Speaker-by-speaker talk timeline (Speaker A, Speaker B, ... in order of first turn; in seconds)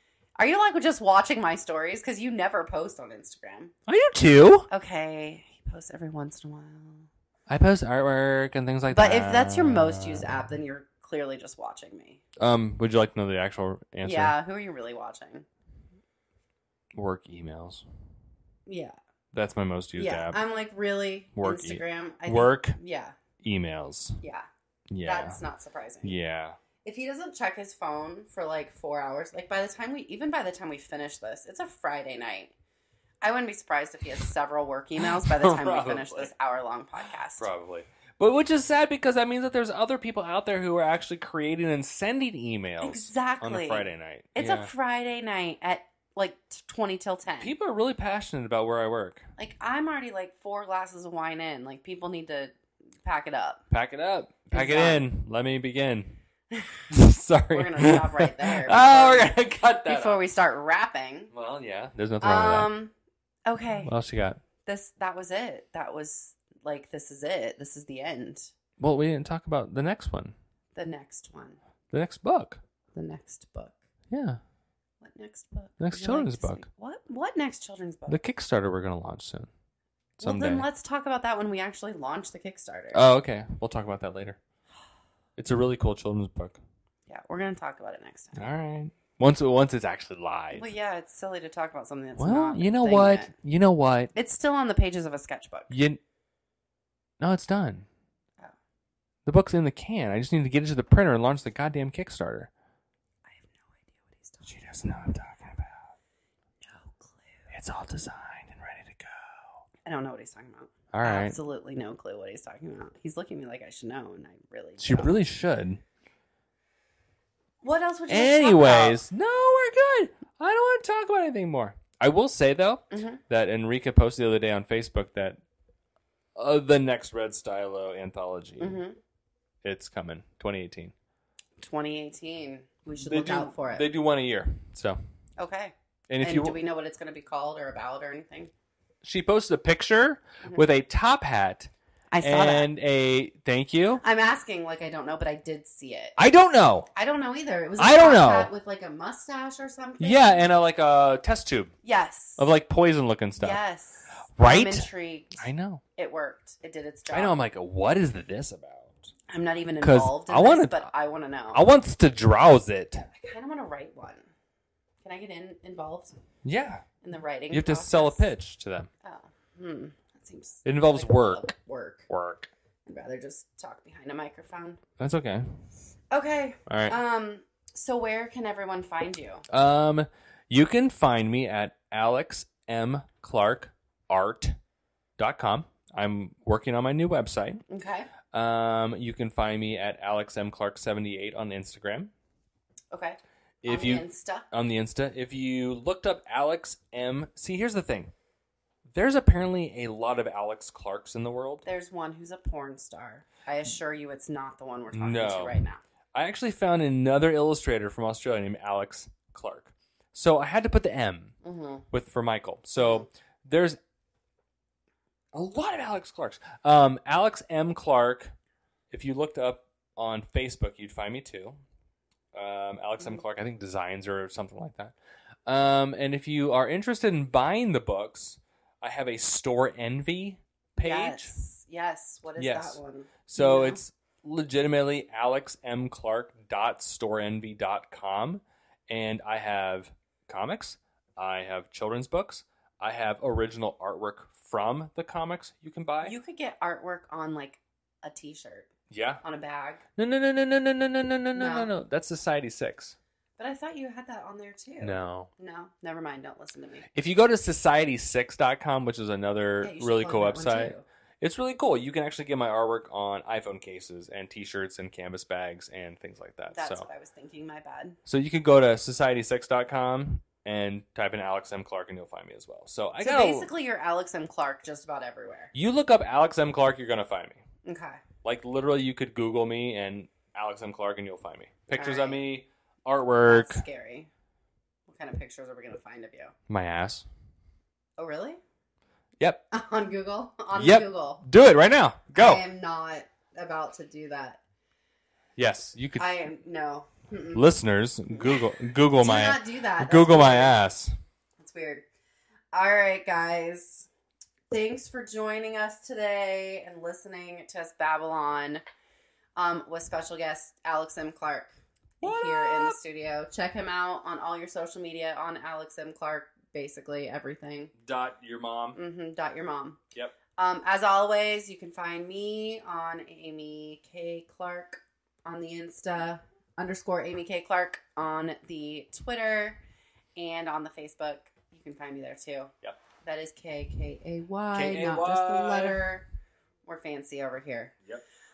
Speaker A: 0.4-3.7, 4.7-7.1, 8.9-12.2, 14.0-15.5, 18.7-19.0, 20.0-23.1, 24.2-24.5, 25.0-26.2, 26.8-32.5, 33.2-37.5, 42.8-47.5, 49.4-52.5, 53.0-53.6, 54.5-55.0, 56.5-56.9, 57.5-61.3, 62.2-62.9, 63.5-63.9, 64.7-68.5, 70.8-71.6, 72.9-73.8, 75.0-78.2, 80.2-83.0, 87.1-88.5, 90.5-93.3, 94.2-95.7, 103.3-104.5, 106.6-107.5, 109.9-115.2, 117.6-119.0, 122.9-123.2, 128.6-129.0, 131.6-133.9, 135.4-138.5, 142.1-142.7, 144.0-146.2, 146.9-150.5, 151.8-152.4, 153.4-155.4, 156.0-157.3, 159.3-161.7, 163.1-164.3, 165.0-166.2, 167.0-168.3, 169.0-172.1, 172.9-174.8, 176.1-179.4, 187.7-188.1, 192.9-194.5, 201.7-205.8, 211.4-211.8, 212.8-213.1, 230.8-233.8, 246.0-248.7, 249.2-249.8, 251.3-251.7, 253.4-256.9, 259.6-260.8, 266.5-268.0, 273.0-275.5, 277.6-278.0, 281.8-282.2, 283.3-284.1, 284.9-286.3, 288.0-288.4, 289.5-291.2, 292.1-294.4, 296.0-297.5, 298.1-300.6, 301.4-301.8, 302.5-303.9, 304.5-308.6, 309.4-317.7, 318.8-319.8, 320.4-329.6, 330.2-336.1, 336.7-337.7
Speaker B: 3.9-4.7, 7.5-10.4, 12.4-14.3, 16.9-17.8, 19.3-20.4, 21.4-22.8, 23.4-24.2, 24.9-25.4, 26.0-26.6, 35.0-36.3, 37.4-44.7, 47.4-49.3, 53.7-56.2, 56.9-60.2, 61.3-62.7, 63.8-64.4, 68.8-70.3, 71.9-72.6, 74.1-74.4, 75.8-76.7, 78.1-79.5, 80.2-80.7, 82.9-84.4, 85.4-86.6, 88.3-90.7, 92.2-94.1, 95.7-96.0, 97.2-97.9, 99.3-102.5, 104.5-105.9, 107.5-109.6, 110.9-111.4, 114.8-115.8, 118.1-125.4, 126.4-128.8, 129.6-130.9, 133.0-135.0, 136.1-136.6, 139.0-141.7, 142.2-144.0, 146.2-146.9, 147.8-148.5, 150.0-151.7, 152.4-153.6, 154.4-155.8, 157.1-159.1, 159.8-160.9, 161.5-163.1, 166.4-166.8, 167.5-168.9, 170.7-171.5, 172.1-172.5, 175.0-175.4, 176.7-177.0, 179.5-184.6, 185.2-187.6, 188.3-192.1, 193.6-198.1, 198.9-201.7, 204.9-211.3, 211.9-213.8, 215.3-218.3, 218.9-221.6, 222.3-224.9, 225.5-231.3, 232.4-246.2, 248.9-249.2, 250.0-253.0, 254.8-255.3, 256.9-266.9, 268.1-273.5, 275.5-277.4, 278.2-283.6, 286.5-287.1, 290.6-292.4, 295.4-296.1, 297.3-300.9, 312.0-312.8, 317.8-318.8, 334.5-335.8